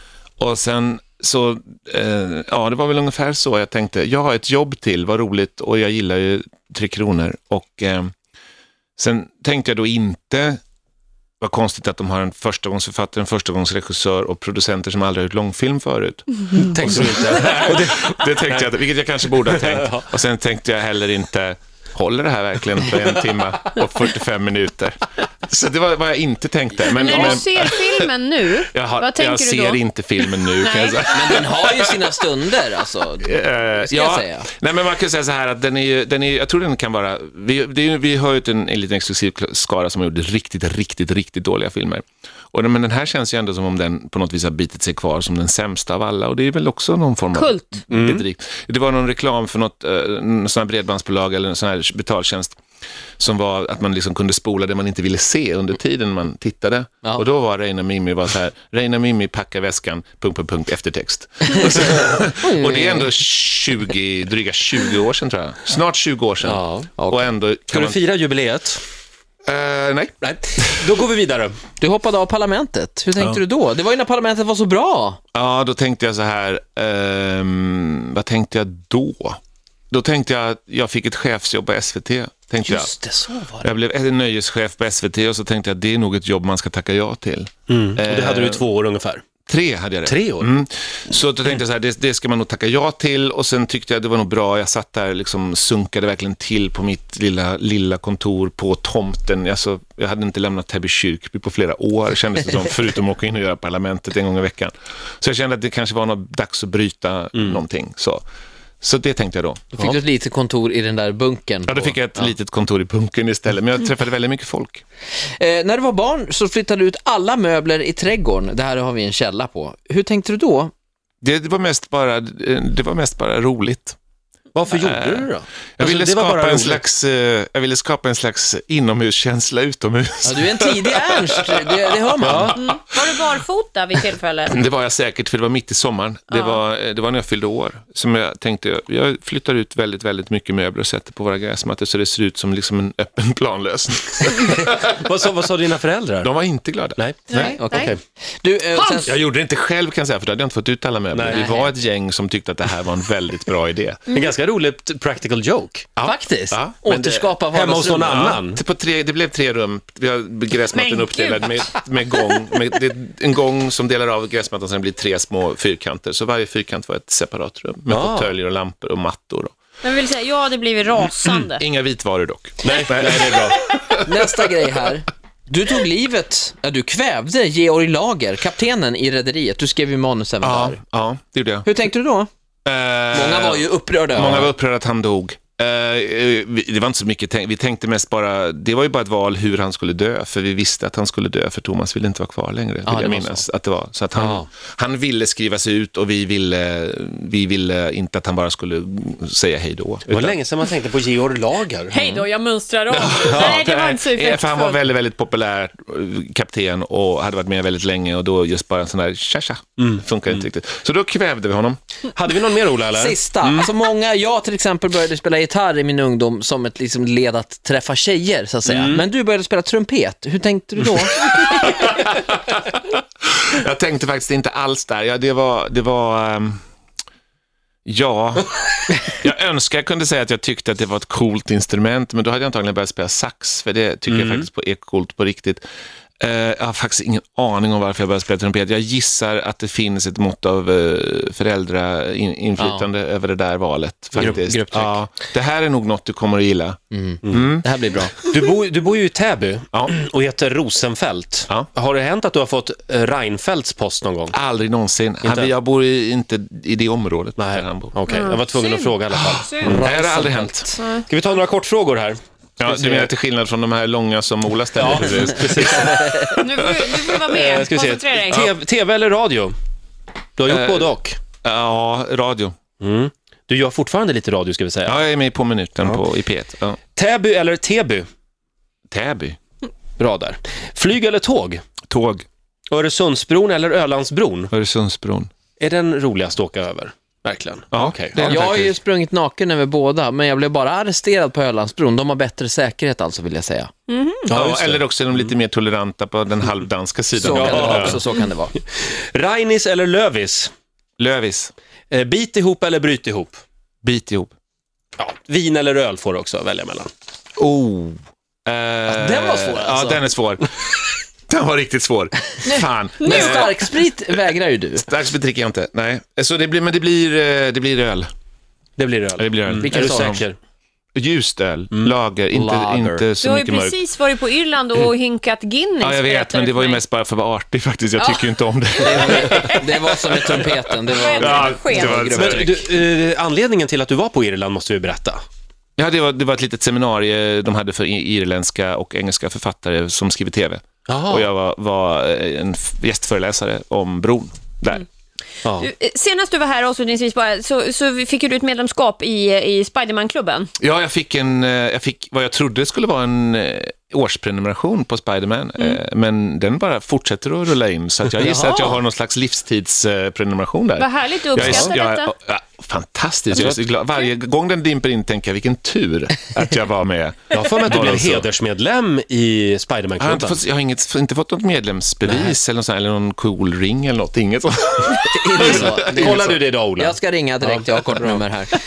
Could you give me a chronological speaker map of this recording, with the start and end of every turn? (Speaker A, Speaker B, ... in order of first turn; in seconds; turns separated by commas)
Speaker A: 0.4-8.1, Speaker A: 9.0-10.6, Speaker A: 11.4-28.1, Speaker B: 16.6-18.7, Speaker B: 19.3-20.1, Speaker C: 26.9-29.8, Speaker A: 28.7-32.2, Speaker C: 30.3-31.1, Speaker D: 31.1-34.5, Speaker A: 33.2-52.6, Speaker C: 47.3-47.8, Speaker B: 47.9-48.2, Speaker A: 53.2-68.0, Speaker D: 62.4-63.1, Speaker B: 66.4-66.9, Speaker D: 67.0-67.3, Speaker B: 67.7-68.8, Speaker A: 69.4-70.9, Speaker B: 70.2-71.5, Speaker D: 71.8-75.2, Speaker A: 75.3-79.4, Speaker A: 79.9-82.9, Speaker D: 82.6-83.7, Speaker A: 83.6-88.6, Speaker B: 87.7-89.2, Speaker A: 89.5-108.2, Speaker B: 90.0-90.5, Speaker A: 108.8-110.0, Speaker D: 109.7-112.3, Speaker A: 111.7-114.8, Speaker D: 115.4-120.7, Speaker A: 121.2-124.0, Speaker B: 124.5-126.8, Speaker A: 124.7-133.4, Speaker D: 130.2-132.6, Speaker B: 132.3-132.5, Speaker C: 132.5-134.6, Speaker A: 134.4-145.0, Speaker C: 136.3-136.6, Speaker B: 144.3-146.3, Speaker A: 146.2-147.0, Speaker B: 147.0-148.0, Speaker C: 147.3-147.9, Speaker D: 147.3-149.2, Speaker A: 148.7-154.2, Speaker B: 151.1-151.6, Speaker D: 151.3-151.7, Speaker B: 154.1-155.9, Speaker A: 156.0-157.4, Speaker D: 156.0-158.2, Speaker B: 157.5-158.6, Speaker A: 158.0-169.5, Speaker C: 160.7-161.7, Speaker B: 167.9-168.3, Speaker C: 169.8-171.6, Speaker A: 171.0-174.5, Speaker B: 172.6-173.6, Speaker D: 174.0-180.8, Speaker A: 180.4-181.7, Speaker D: 181.6-182.3, Speaker A: 182.6-200.4, Speaker D: 183.1-184.5, Speaker D: 192.8-193.5, Speaker B: 194.1-194.5, Speaker B: 200.1-202.2, Speaker C: 201.9-204.8, Speaker A: 202.9-211.8, Speaker B: 203.2-203.6, Speaker B: 212.1-213.7, Speaker D: 212.9-221.3, Speaker B: 218.6-219.1, Speaker A: 221.2-226.6, Speaker A: 227.9-235.6, Speaker B: 234.1-234.5, Speaker A: 236.2-247.7, Speaker D: 242.6-242.9, Speaker D: 244.2-245.0, Speaker D: 246.9-248.1, Speaker B: 248.1-254.4, Speaker A: 254.3-258.0, Speaker B: 255.2-255.5, Speaker B: 257.4-260.1, Speaker C: 258.1-259.8, Speaker A: 259.1-260.7, Speaker D: 259.7-260.9, Speaker B: 261.1-263.1, Speaker A: 262.6-267.2, Speaker B: 264.8-266.4, Speaker C: 266.3-268.5, Speaker B: 267.2-269.5, Speaker B: 270.4-271.2, Speaker A: 270.5-272.5, Speaker B: 272.8-275.0, Speaker A: 274.9-276.8, Speaker B: 276.9-278.1, Speaker A: 278.9-279.4, Speaker B: 280.0-281.6, Speaker A: 281.9-282.2, Speaker B: 282.7-284.5, Speaker A: 284.5-285.3, Speaker B: 285.6-288.7, Speaker A: 287.7-288.8, Speaker D: 288.2-293.7, Speaker C: 293.9-294.3, Speaker A: 294.3-298.0, Speaker B: 294.3-295.2, Speaker B: 297.2-298.1, Speaker D: 297.2-298.6, Speaker B: 298.8-300.5, Speaker A: 301.0-301.5, Speaker B: 301.9-303.4, Speaker A: 303.8-304.3, Speaker B: 305.0-306.9, Speaker A: 307.4-314.2, Speaker D: 308.9-310.1, Speaker D: 312.4-314.9, Speaker A: 314.8-318.1, Speaker B: 318.8-320.4, Speaker A: 319.2-320.2, Speaker D: 319.6-320.2, Speaker A: 320.9-323.8, Speaker D: 322.3-323.1, Speaker C: 323.2-326.8, Speaker A: 325.8-332.5, Speaker C: 328.0-328.2, Speaker D: 328.8-332.7, Speaker C: 328.9-329.6, Speaker C: 330.9-332.0, Speaker B: 332.0-335.2, Speaker A: 335.8-344.9, Speaker B: 340.9-341.3, Speaker B: 345.4-345.7, Speaker C: 345.6-350.5, Speaker A: 350.6-368.3, Speaker C: 358.2-358.8, Speaker C: 360.8-362.1, Speaker B: 361.4-361.7, Speaker B: 367.3-370.4, Speaker A: 370.0-376.2, Speaker B: 372.0-372.3, Speaker D: 375.0-378.5, Speaker B: 375.4-378.2